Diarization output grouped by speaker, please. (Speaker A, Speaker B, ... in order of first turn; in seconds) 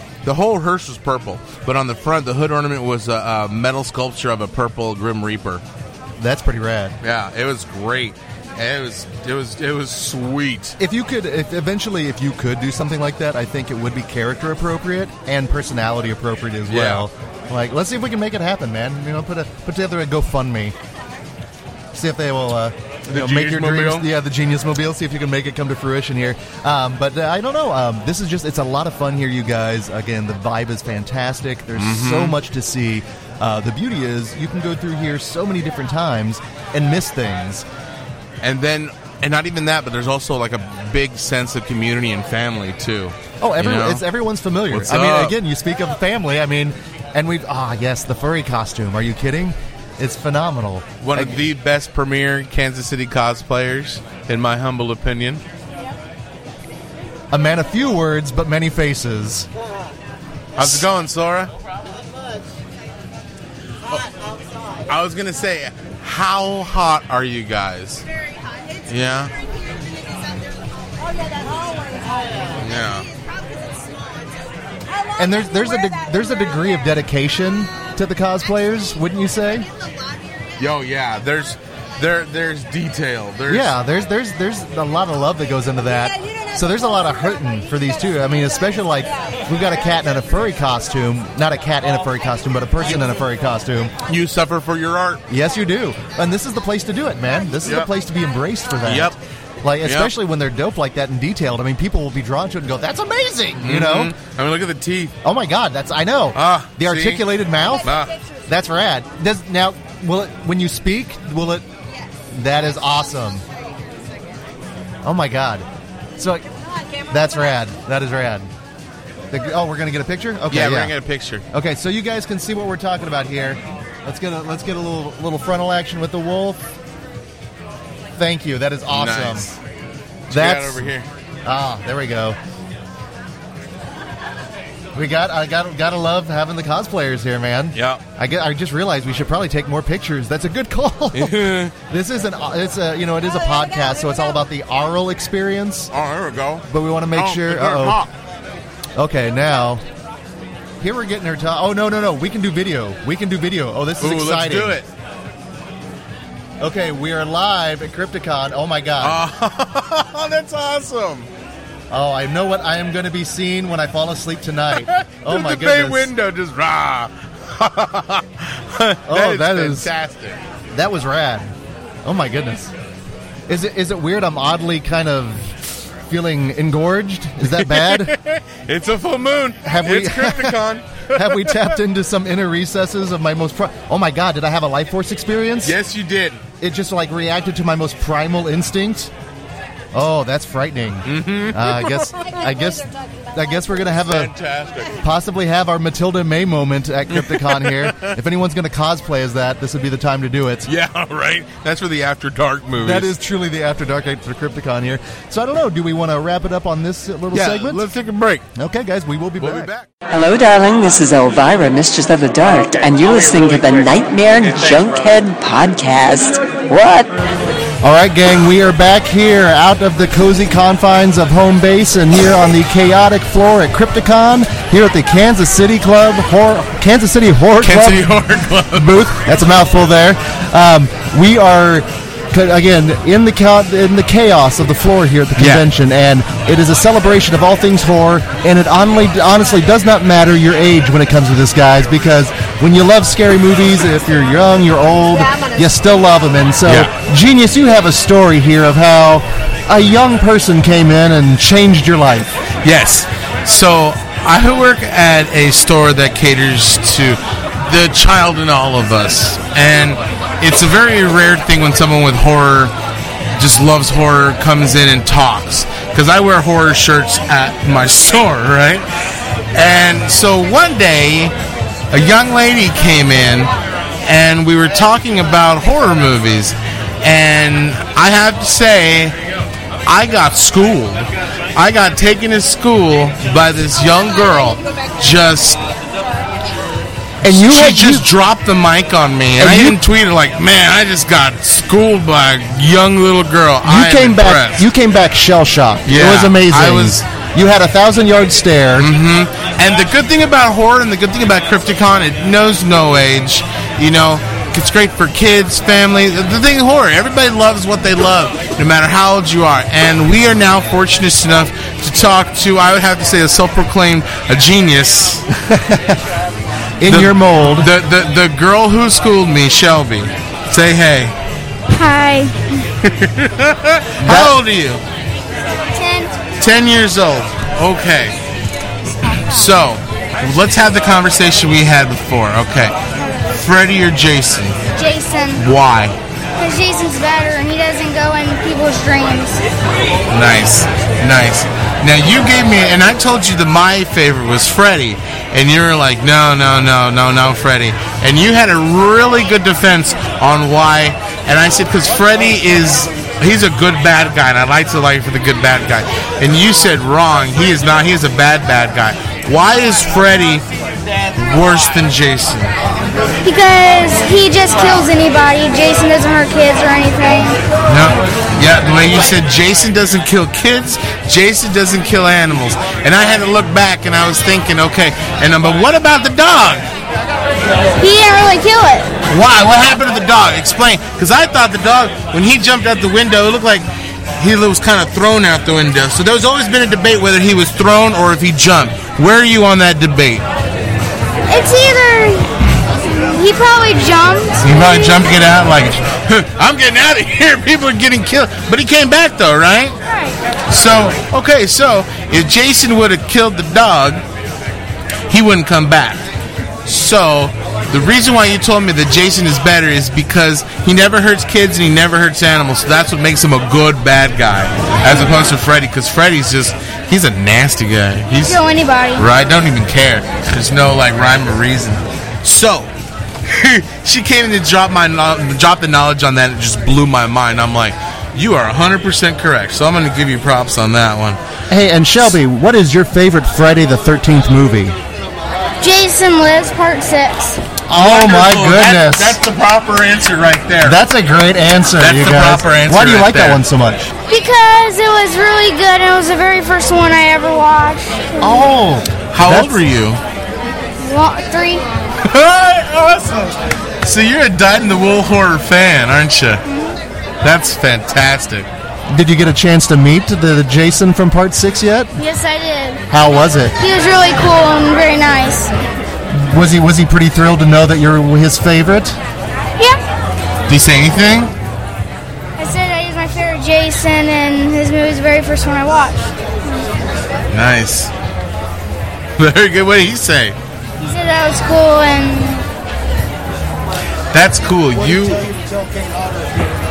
Speaker A: 0.2-5.6, 7.0-10.8, 16.7-17.1, 23.1-24.1, 31.8-32.4, 38.4-44.0, 44.7-45.4, 51.0-55.4, 60.6-61.5, 64.9-68.0, 68.9-69.3, 72.5-73.1, 80.6-83.7, 94.0-95.2, 98.8-99.1, 99.8-100.1, 103.6-105.1, 106.3-107.2, 107.8-108.1, 120.5-121.4, 128.9-129.6, 130.3-131.1, 137.8-138.0, 141.1-141.7, 145.9-148.1, 154.0-154.9, 159.0-161.3, 164.7-170.4, 177.5-181.8, 185.6-186.4, 191.1-192.1, 194.1-195.0, 197.1-198.2, 200.7-203.1, 207.3-208.5, 209.4-209.9, 227.6-229.1, 235.4-235.7, 246.7-246.9, 252.6-262.7, 263.4-268.9, 269.5-271.3, 271.9-273.5, 274.0-279.1, 279.9-285.6, 287.2-294.7, 295.9-297.0, 298.8-315.2, 316.9-321.1, 322.8-324.8, 326.4-328.1, 329.3-332.8, 333.3-334.6, 335.4-336.0, 340.1-360.4, 361.1-362.5, 367.7-376.6, 379.1-383.6, 384.2-390.2, 394.4-399.8, 400.5-404.0, 405.1-406.0, 406.6-418.4, 418.9-422.7, 423.3-431.2, 437.7-440.8, 441.8-443.4, 449.1-450.0, 452.0-456.4, 457.2-458.5, 470.5-471.3, 477.3-477.9, 479.2-480.4, 484.1-485.3
Speaker B: 6.2-7.0, 10.8-20.8, 21.9-37.6, 43.4-51.4, 57.3-59.5, 60.6-60.9, 75.2-79.7, 83.5-93.9, 95.3-104.1, 105.2-107.9, 108.5-111.7, 112.3-113.4, 115.0-116.5, 117.1-118.5, 119.3-120.9, 121.5-126.6, 128.2-129.5, 130.3-130.9, 131.4-132.4, 134.9-145.9, 146.7-148.0, 149.0-149.8, 150.8-154.8, 156.6-159.2, 161.9-166.1, 169.1-169.9, 170.7-171.5, 172.0-172.7, 173.5-178.1, 179.6-180.6, 181.1-185.8, 186.6-189.1, 189.9-194.3, 195.0-200.7, 202.8-207.9, 208.5-209.7, 217.8-228.1, 228.7-252.3, 287.2-288.1, 289.4-289.8, 293.6-298.9, 315.4-316.0, 316.8-317.7, 324.0-324.4, 431.5-434.8, 437.7-439.2, 440.6-443.9, 448.2-449.6, 458.9-461.9, 462.9-463.5, 466.1-469.0
Speaker C: 210.1-217.2
Speaker D: 321.7-322.5, 325.7-326.1, 329.0-329.5, 333.0-333.2, 334.8-335.4, 336.4-339.4, 363.2-367.4, 377.8-378.9, 391.3-395.1, 399.9-400.2, 418.2-419.1, 435.6-437.4, 444.1-448.5, 450.8-451.6, 456.4-456.8, 462.0-462.8, 463.6-465.5, 472.4-476.7, 480.8-482.4